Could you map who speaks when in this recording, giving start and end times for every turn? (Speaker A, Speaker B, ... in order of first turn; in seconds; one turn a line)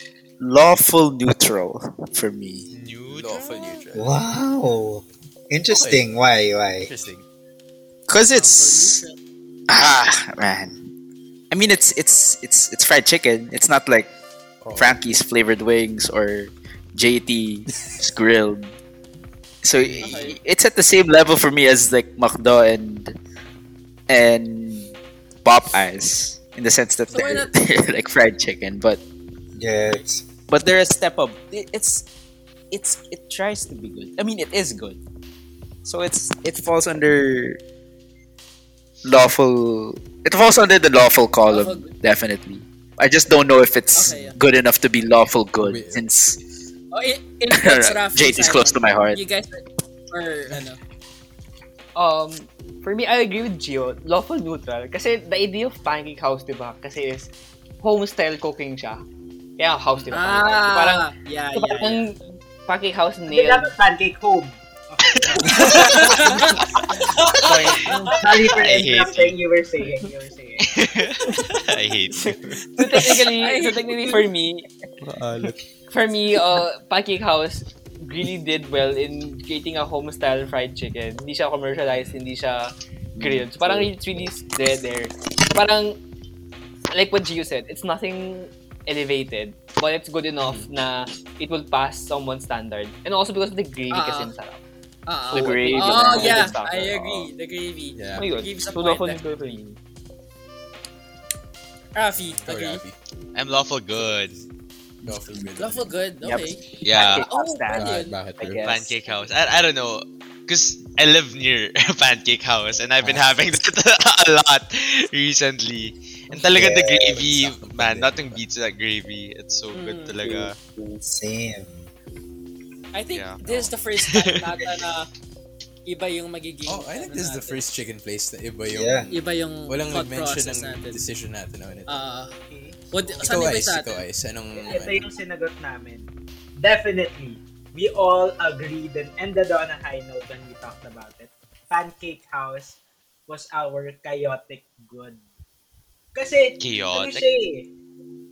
Speaker A: 0.4-2.7
Speaker B: 2.7-3.4
Speaker C: 3.1-4.2
Speaker D: 3.3-3.8
Speaker E: 4.0-6.9
Speaker C: 5.7-6.0
Speaker C: 6.9-7.2
Speaker A: 8.1-9.0
Speaker D: 8.3-9.2
Speaker A: 9.7-10.8
Speaker A: 11.5-14.1
Speaker C: 14.6-15.0
Speaker A: 14.8-18.7
Speaker A: 19.6-23.2
Speaker D: 20.0-20.4
Speaker A: 24.1-24.9
Speaker A: 25.4-29.0
Speaker D: 27.1-27.5
Speaker E: 29.6-30.2
Speaker A: 30.5-32.1
Speaker A: 32.7-35.0
Speaker A: 35.8-37.6
Speaker A: 39.0-46.4
Speaker D: 41.5-41.9
Speaker D: 43.9-44.3
Speaker C: 45.6-46.0
Speaker D: 46.9-50.8
Speaker A: 47.5-49.2
Speaker F: 51.9-59.0
Speaker F: 59.6-63.7
Speaker D: 60.1-62.0
Speaker G: 63.3-66.3
Speaker D: 65.5-68.1
Speaker A: 65.7-66.2
Speaker B: 67.4-69.4
Speaker F: 67.4-68.1
Speaker G: 68.1-70.7
Speaker B: 70.6-72.6
Speaker F: 72.2-74.7
Speaker D: 73.3-74.3
Speaker C: 75.0-75.5
Speaker F: 75.9-86.0
Speaker A: 83.2-84.2
Speaker F: 86.9-94.6
Speaker D: 93.9-94.3
Speaker D: 95.1-99.5
Speaker F: 95.3-97.0
Speaker A: 95.3-96.6
Speaker C: 96.6-97.3
Speaker C: 97.9-98.3
Speaker F: 98.2-99.8
Speaker D: 101.9-102.8
Speaker C: 102.2-102.9
Speaker B: 103.3-104.3
Speaker C: 103.9-104.4
Speaker A: 105.0-105.4
Speaker C: 105.0-106.0
Speaker D: 105.5-108.1
Speaker A: 106.2-109.0
Speaker B: 106.8-107.3
Speaker C: 107.7-108.6
Speaker B: 108.6-120.6
Speaker E: 116.5-117.2
Speaker C: 117.1-118.4
Speaker D: 119.7-120.2
Speaker A: 120.2-120.5
Speaker E: 120.8-121.9
Speaker D: 122.9-125.1
Speaker B: 123.1-124.5
Speaker D: 125.9-127.6
Speaker C: 126.7-132.0
Speaker E: 128.7-129.1
Speaker D: 129.1-131.0
Speaker D: 131.9-132.3
Speaker G: 132.5-133.4
Speaker D: 132.9-134.0
Speaker C: 133.2-135.1
Speaker G: 134.6-136.1
Speaker G: 136.6-142.8
Speaker G: 143.3-145.2
Speaker G: 146.1-147.7
Speaker B: 146.6-147.3